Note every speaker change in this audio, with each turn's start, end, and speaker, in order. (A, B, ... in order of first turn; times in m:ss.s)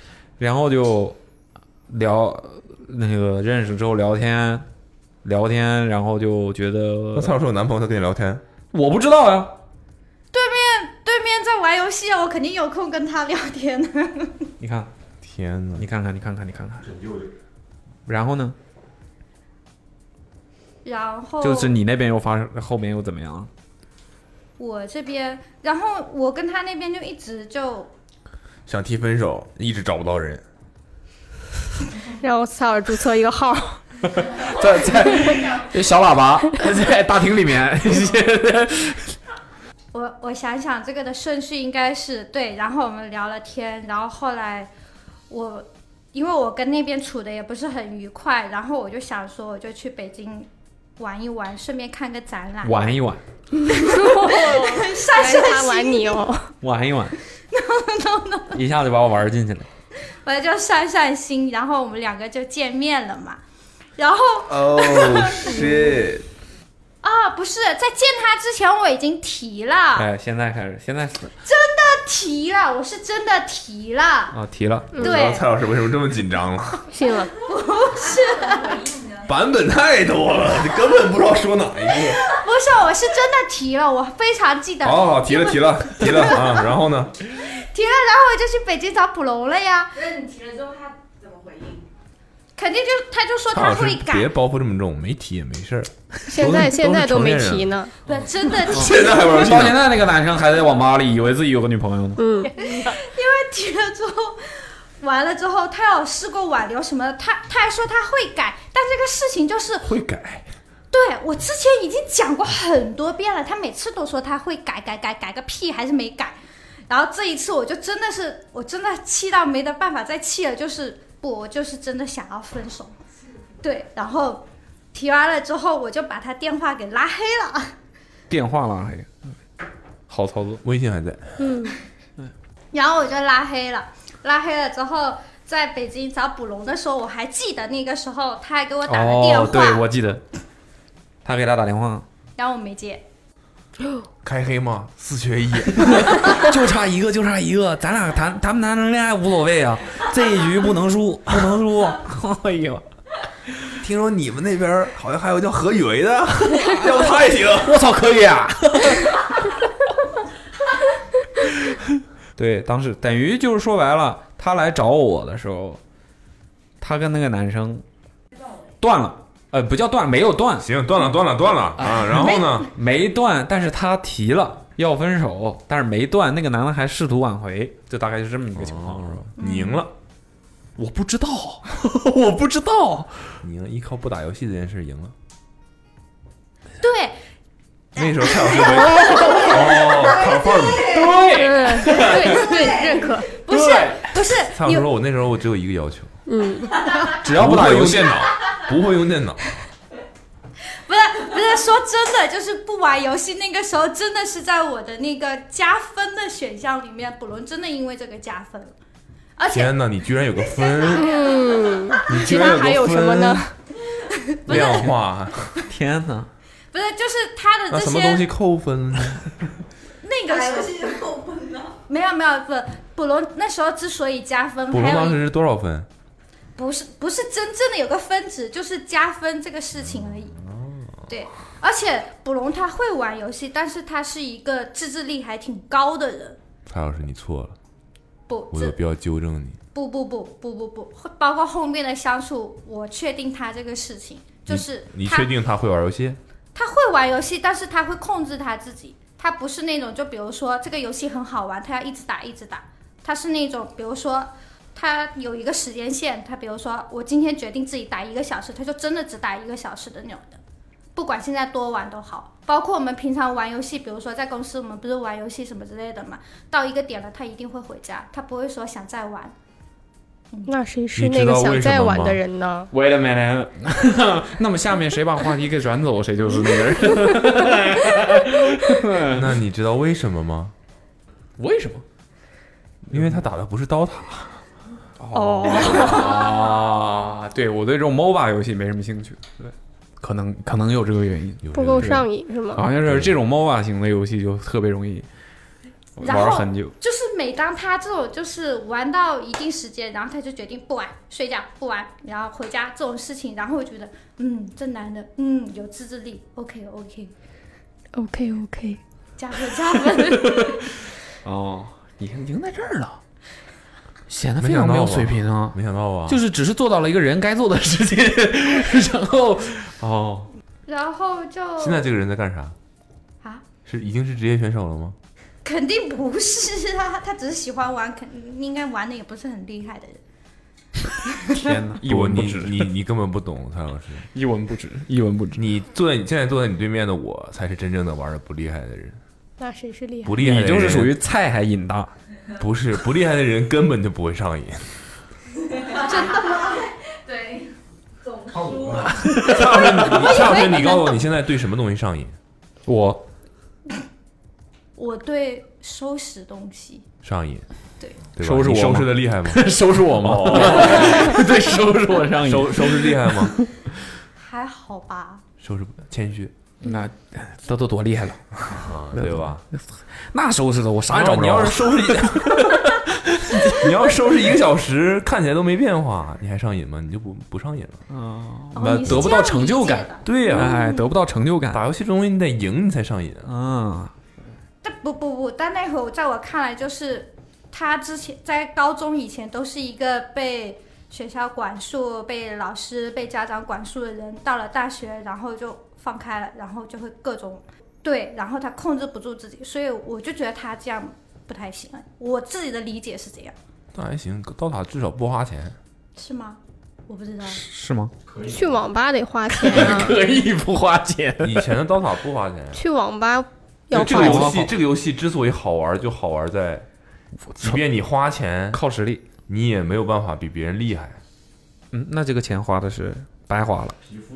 0:00.4-0:01.2 A
0:01.9-0:04.7 A
0:05.2-0:07.4 A
0:07.2-0:08.4 B
0:08.7-0:09.6 A
0:10.3-0:14.5 C
0:14.6-0:14.9 A
0:15.2-0:15.9 B
0:15.8-0:17.0 A
0:18.1-0:18.6 A
0:20.8-0:21.8 C
0:21.4-0:23.5 A
0:24.6-0:27.9 C
0:28.7-0:30.4 B
0:32.2-0:33.8 D
0:34.1-0:39.2 A
0:35.1-0:35.5 D
0:39.9-0:44.7 C
0:45.3-0:52.9 C
0:52.6-0:53.2 A
0:53.7-0:56.2 C
0:53.8-0:56.5 D
0:56.6-0:57.2 A
0:57.5-0:58.6 C
0:58.5-0:59.7 A
1:00.2-1:03.4 C
1:04.0-1:05.9 C
1:04.5-1:06.3 B
1:07.0-1:10.1 C
1:10.0-1:11.3 A
1:11.4-1:14.4 C
1:14.3-1:15.0 A
1:15.0-1:15.5 C
1:15.0-1:16.8 B
1:16.9-1:17.3 D
1:17.4-1:18.8 C
1:18.1-1:19.2 E
1:19.3-1:22.3 B
1:22.3-1:26.6 C
1:24.8-1:27.2 B
1:27.4-1:30.0 C
1:30.0-1:31.8 E
1:32.6-1:34.3 C
1:33.5-1:37.7 B
1:36.3-1:37.9 D
1:38.1-1:39.3 C
1:38.6-1:39.9 B
1:38.7-1:42.2 A
1:42.2-1:42.5 D
1:42.5-1:49.9 C
1:49.8-1:50.5 B
1:50.9-1:56.4 C
1:56.9-2:03.0 C
2:03.6-2:07.8 C
2:08.3-2:09.4 A
2:10.1-2:10.6 A
2:10.6-2:11.5 B
2:11.4-2:11.8 D
2:12.7-2:19.9 C
2:18.9-2:20.2 A
2:21.2-2:22.0 A
2:22.4-2:23.0 C
2:24.2-2:26.1 B
2:26.0-2:32.8 A
2:33.8-2:37.8 B
2:37.5-2:39.4 A
2:41.5-2:41.8 A
2:42.4-2:45.8 A
2:46.8-2:47.8 A
2:48.8-2:50.7 A
2:50.6-2:52.7 B
2:51.8-2:59.3 A
2:58.6-2:59.9 B
2:59.4-2:59.8 C
3:00.8-3:03.4 A
3:03.4-3:05.1 B
3:06.8-3:07.2 C
3:08.0-3:11.0 B
3:08.0-3:09.4 C
3:09.8-3:11.2 E
3:10.9-3:12.5 A
3:11.3-3:13.3 D
3:12.0-3:14.9 C
3:12.5-3:13.0 E
3:13.5-3:14.3 A
3:14.5-3:16.1 B
3:16.3-3:16.8 D
3:17.2-3:18.2 A
3:17.3-3:19.4 B
3:20.8-3:28.8 C
3:29.4-3:29.8 C
3:29.5-3:31.1 B
3:30.5-3:31.4 C
3:31.0-3:33.5 D
3:32.1-3:33.4 B
3:32.2-3:32.6 C
3:34.1-3:35.0 C
3:34.5-3:35.4 B
3:35.6-3:36.3 A
3:36.7-3:38.3 C
3:37.7-3:39.3 B
3:40.0-3:40.9 C
3:40.3-3:41.8 E
3:41.9-3:45.2 C
3:44.7-3:45.9 B
3:46.6-3:50.4 C
3:50.2-3:50.9 B
3:51.1-3:56.4 C
3:56.7-3:57.6 B
3:58.3-3:58.8 C
3:58.5-3:59.6 B
3:59.7-4:05.3 C
4:04.5-4:06.2 B
4:06.6-4:20.4 C
4:21.0-4:29.4 C
4:30.5-4:32.7 D
4:31.0-4:32.2 B
4:32.7-4:39.3 A
4:39.1-4:40.5 B
4:41.4-4:41.8 A
4:42.9-4:44.4 B
4:45.0-4:55.1 A
4:45.1-4:46.2 D
4:51.5-4:52.0 B
4:51.5-4:52.6 D
4:52.8-4:53.1 B
4:56.0-4:56.8 A
4:56.0-5:07.1 C
5:08.0-5:08.8 D
5:09.2-5:10.7 C
5:11.2-5:13.0 A
5:14.1-5:20.3 A
5:14.4-5:16.2 B
5:20.7-5:21.9 C
5:21.6-5:22.6 B
5:23.6-5:25.0 B
5:25.4-5:30.0 C
5:31.3-5:32.7 A
5:31.8-5:34.1 B
5:34.1-5:35.4 A
5:35.4-5:39.0 B
5:39.4-5:40.1 D
5:40.0-5:40.9 B
5:40.2-5:41.9 A
5:42.4-5:44.8 B
5:45.7-5:47.5 E
5:45.8-5:46.6 C
5:48.0-5:48.9 E
5:48.8-5:50.1 A
5:49.1-5:52.2 B
5:49.8-5:51.0 C
5:52.7-5:53.0 A
5:54.8-5:56.9 C
5:57.0-5:57.5 B
5:58.1-6:01.2 B
5:58.2-6:03.5 A
6:02.2-6:03.4 B
6:04.2-6:05.2 C
6:05.4-6:06.3 B
6:06.6-6:13.9 A
6:08.5-6:09.4 B
6:10.9-6:12.6 B
6:13.3-6:17.8 B
6:17.9-6:21.6 A
6:18.5-6:20.9 C
6:20.0-6:20.5 B
6:21.5-6:23.3 B
6:23.2-6:23.9 A
6:24.6-6:43.4 C
6:43.8-6:45.6 B
6:46.0-6:47.4 C
6:47.3-6:47.9 A
6:48.2-6:50.0 D
6:49.3-6:51.5 A
6:51.2-6:52.6 B
6:52.5-6:54.4 D
6:53.7-6:54.5 A
6:53.7-6:56.7 B
6:57.3-6:57.6 A
6:57.4-6:58.6 B
6:58.5-6:59.0 A
6:59.3-7:01.0 B
7:01.7-7:03.8 A